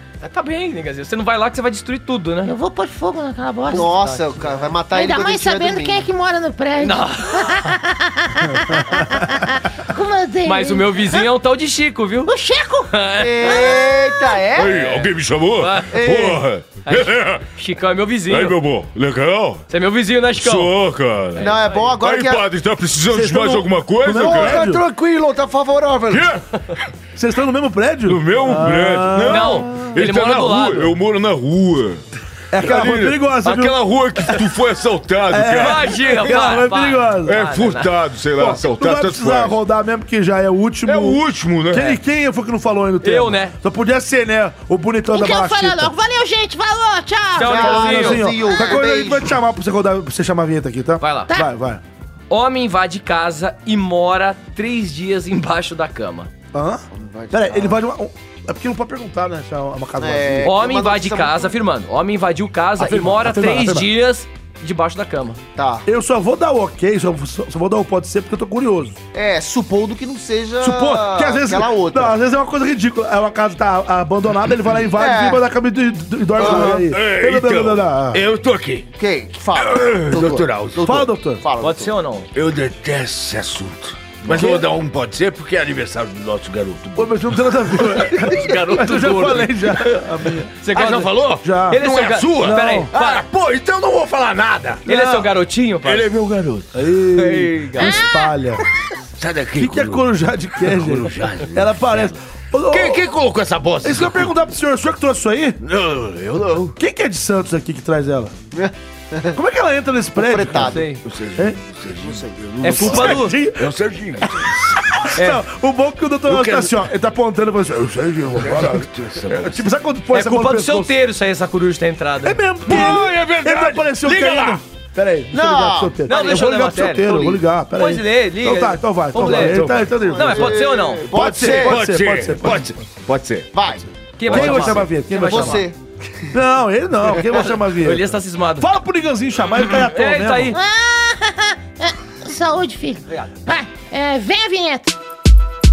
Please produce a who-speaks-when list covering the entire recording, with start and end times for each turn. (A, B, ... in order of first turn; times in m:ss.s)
0:00.2-0:02.5 A
0:02.4-0:03.9 B
0:03.7-0:04.4 A
0:03.7-0:06.0 C
0:04.9-0:11.2 B
0:06.8-0:07.7 A
0:10.4-0:12.3 A
0:12.2-0:12.9 B
0:12.9-0:13.8 A
0:13.2-0:14.9 C
0:13.4-0:14.1 B
0:14.5-0:17.4 D
0:14.6-0:15.9 A
0:15.9-0:16.4 C
0:16.8-0:18.6 A
0:18.3-0:19.6 D
0:19.7-0:20.7 A
0:20.3-0:24.6 D
0:21.3-0:21.9 A
0:21.4-0:22.5 C
0:23.1-0:24.8 E
0:24.1-0:26.3 C
0:26.1-0:26.8 D
0:27.2-0:29.9 E
0:28.0-0:32.0 D
0:29.2-0:31.0 A
0:32.5-0:33.8 E
0:32.6-0:36.6 D
0:35.3-0:37.4 E
0:35.5-0:37.9 A
0:37.2-0:39.6 D
0:38.4-0:45.9 E
0:40.8-0:42.0 D
0:43.0-0:43.6 A
0:45.1-0:47.9 B
0:47.4-0:48.3 A
0:47.4-0:49.4 C
0:47.6-0:51.8 E
0:48.5-0:48.8 B
0:51.0-0:51.3 A
0:52.3-0:56.3 A
0:56.5-1:00.5 E
0:56.9-0:57.8 C
1:00.0-1:01.5 C
1:00.4-1:05.4 A
1:02.8-1:03.9 E
1:05.6-1:05.9 C
1:05.8-1:09.0 E
1:09.1-1:12.2 C
1:10.6-1:18.2 E
1:14.9-1:15.4 C
1:16.4-1:16.8 C
1:16.4-1:18.9 D
1:19.0-1:21.9 C
1:19.6-1:21.0 D
1:20.8-1:21.4 E
1:21.6-1:22.3 A
1:22.3-1:28.3 D
1:24.2-1:24.7 E
1:26.9-1:30.5 E
1:28.1-1:30.0 A
1:30.6-1:33.2 A
1:30.7-1:34.8 D
1:31.4-1:32.9 E
1:34.8-1:35.3 E
1:34.8-1:36.1 A
1:35.8-1:37.5 D
1:36.7-1:38.6 E
1:37.2-1:38.0 A
1:37.8-1:38.2 B
1:39.2-1:40.0 D
1:39.6-1:43.1 E
1:40.6-1:42.1 D
1:42.7-1:44.4 D
1:43.8-1:45.6 E
1:45.6-1:46.8 D
1:46.8-1:48.3 E
1:48.5-1:49.4 C
1:49.3-1:50.8 E
1:50.2-1:50.9 C
1:50.6-1:51.0 A
1:51.0-1:54.8 D
1:52.0-1:53.1 C
1:52.6-1:53.4 A
1:52.8-2:00.9 E
1:55.1-1:55.4 A
1:56.3-1:56.8 D
1:58.4-1:59.6 D
2:00.1-2:02.4 A
2:02.2-2:10.5 E
2:02.6-2:04.6 D
2:05.3-2:06.2 C
2:06.1-2:11.1 A
2:09.2-2:09.8 D
2:10.0-2:11.8 C
2:11.1-2:12.8 E
2:11.3-2:13.5 D
2:13.5-2:13.8 C
2:14.2-2:15.7 A
2:14.2-2:14.8 D
2:14.3-2:15.6 E
2:15.2-2:16.3 C
2:16.3-2:20.6 E
2:17.1-2:18.7 A
2:19.6-2:20.6 A
2:20.5-2:24.9 B